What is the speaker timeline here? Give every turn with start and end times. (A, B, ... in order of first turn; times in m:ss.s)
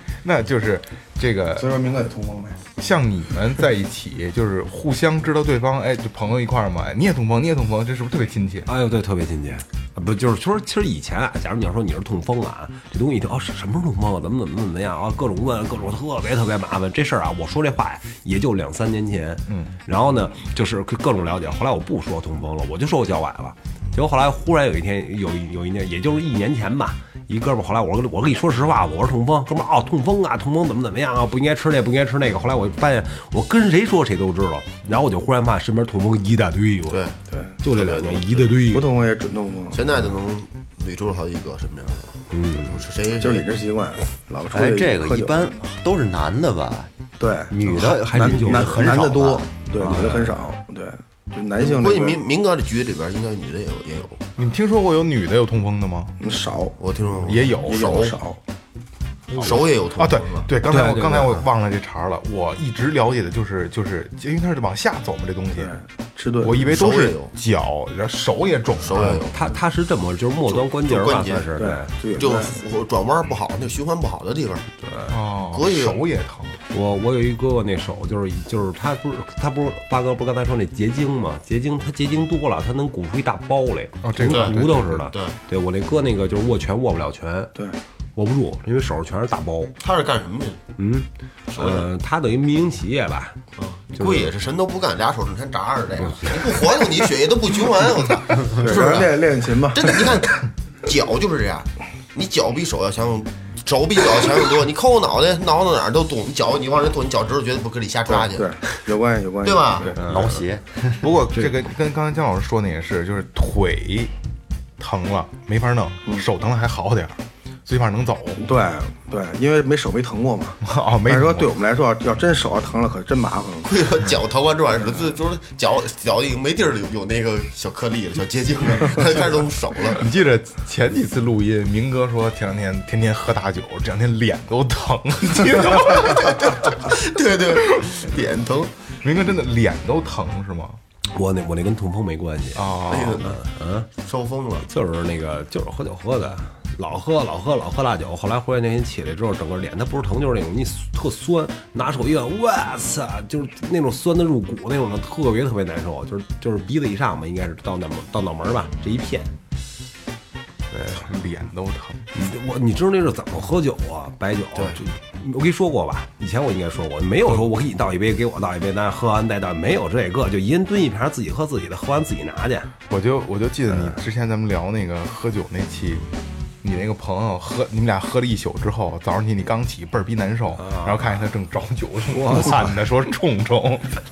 0:00.2-0:01.7 A
0:01.6-0:02.6 B
0:02.8-0:08.7 A
0:08.7-0:37.0 C
0:19.5-0:19.7 A
0:36.9-0:37.2 D
0:37.3-0:37.6 B
0:37.6-0:38.9 C
0:37.7-0:38.5 D
0:38.7-0:39.8 B
0:39.7-0:43.5 D
0:42.3-0:42.8 C
0:43.2-0:45.5 B
0:44.5-0:46.9 E
0:47.2-0:52.2 B
0:47.5-0:50.2 E
0:47.6-0:49.1 C
0:49.8-0:50.3 C
0:51.6-0:54.3 D
0:54.4-0:56.2 A
0:56.2-0:58.4 B
0:56.8-0:58.2 D
0:57.2-0:58.0 A
0:59.3-0:59.6 C
0:59.4-1:00.5 D
1:00.0-1:05.8 A
1:00.7-1:01.4 C
1:05.6-1:06.7 B
1:06.4-1:09.2 A
1:06.6-1:07.3 D
1:08.8-1:09.4 D
1:09.3-1:11.9 C
1:10.5-1:11.5 D
1:11.6-1:12.6 B
1:12.2-1:14.7 D
1:14.9-1:15.1 C
1:15.1-1:16.6 A
1:15.5-1:16.0 D
1:16.7-1:27.5 C
1:24.0-1:24.9 A
1:24.3-1:25.4 D
1:28.2-1:29.8 C
1:29.8-1:30.6 D
1:30.8-1:33.4 C
1:31.5-1:31.9 D
1:33.6-1:48.5 D
1:34.0-1:34.3 C
1:36.0-1:36.3 C
1:38.5-1:40.2 B
1:48.1-1:50.0 B
1:49.4-1:49.9 D
1:50.0-1:51.1 E
1:50.0-1:50.4 C
1:51.0-1:54.1 A
1:54.8-1:58.4 A
1:58.4-2:03.7 B
2:00.6-2:01.6 A
2:03.6-2:10.0 D
2:09.9-2:16.7 A
2:15.5-2:18.7 D
2:19.0-2:20.8 A
2:21.1-2:23.9 C
2:22.6-2:23.3 A
2:22.9-2:23.4 D
2:24.0-2:24.7 D
2:24.6-2:39.3 C
2:40.7-2:41.0 C
2:40.9-2:42.1 A
2:42.1-2:52.7 C
2:52.9-2:56.1 A
2:56.6-3:04.0 A
3:00.6-3:01.0 C
3:02.1-3:02.7 C